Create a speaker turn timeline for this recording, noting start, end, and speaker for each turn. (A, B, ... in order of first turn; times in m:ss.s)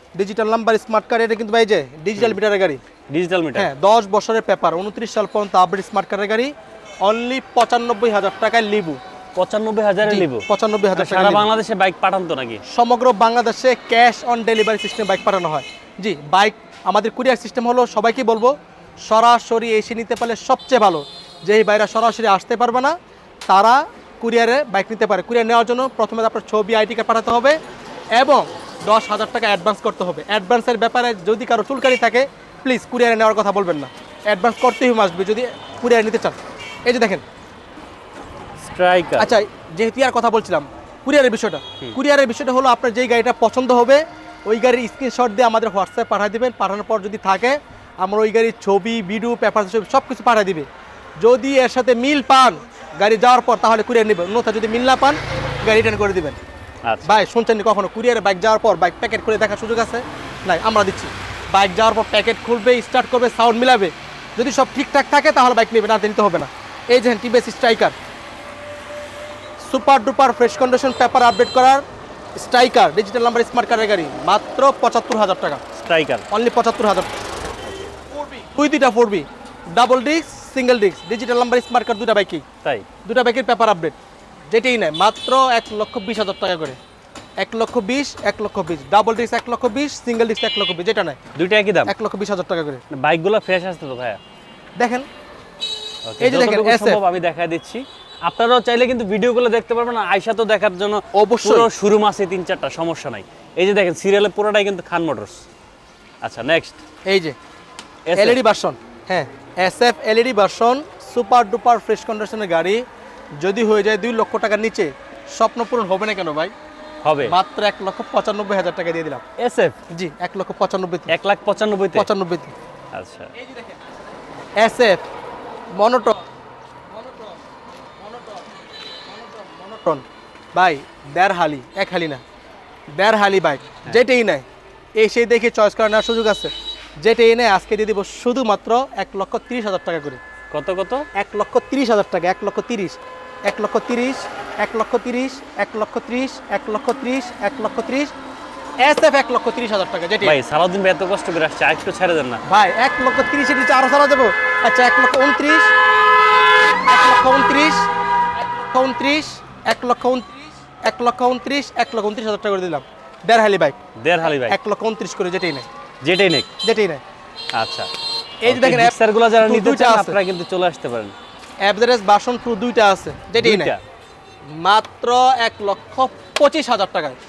0:00.1-0:02.8 A
0:03.1-0:03.7 B
0:03.5-0:09.0 A
0:09.4-0:12.6 B
0:10.0-0:11.5 A
0:12.6-0:18.5 A
0:19.0-0:22.9 A
0:23.5-0:27.6 A
0:28.1-0:37.2 A
0:38.6-0:39.3 B
0:39.2-0:50.6 A
0:51.2-0:56.4 A
0:56.8-0:57.1 B
0:57.0-1:07.9 A
1:09.6-1:11.8 A
1:12.4-1:15.6 A
1:15.7-1:16.3 B
1:16.3-1:17.1 A
1:18.1-1:22.4 A
1:23.0-1:24.0 A
1:24.5-1:26.8 A
1:27.4-1:31.2 A
1:31.3-1:31.9 B
1:31.8-1:32.8 A
1:32.9-1:34.2 B
1:34.8-1:35.0 A
1:36.0-1:45.4 B
1:36.2-1:37.0 A
1:41.1-1:41.7 A
1:46.2-1:46.8 B
1:47.1-1:47.4 A
1:48.0-1:48.4 B
1:48.2-1:52.8 A
1:53.4-1:56.5 A
1:57.0-1:57.3 B
1:57.2-1:59.2 A
1:59.4-1:59.8 B
1:59.9-2:01.1 A
2:01.1-2:02.1 B
2:01.9-2:02.5 A
2:02.9-2:03.3 B
2:04.6-2:05.0 A
2:05.7-2:06.2 A
2:06.9-2:07.4 A
2:08.0-2:08.5 A
2:09.1-2:12.2 A
2:12.9-2:14.4 A
2:15.0-2:20.2 A
2:20.5-2:21.1 B
2:21.1-2:28.1 A
2:28.8-2:30.4 A
2:30.2-2:32.4 B
2:32.5-2:35.7 A
2:36.9-2:37.9 A
2:38.4-2:45.7 A
2:44.0-2:44.6 B
2:46.0-2:46.5 B
2:46.6-2:47.0 A
2:47.6-2:47.9 B
2:48.4-2:50.2 A
2:48.5-2:51.1 B
2:51.6-2:53.7 A
2:53.4-2:53.8 B
2:54.6-2:57.2 A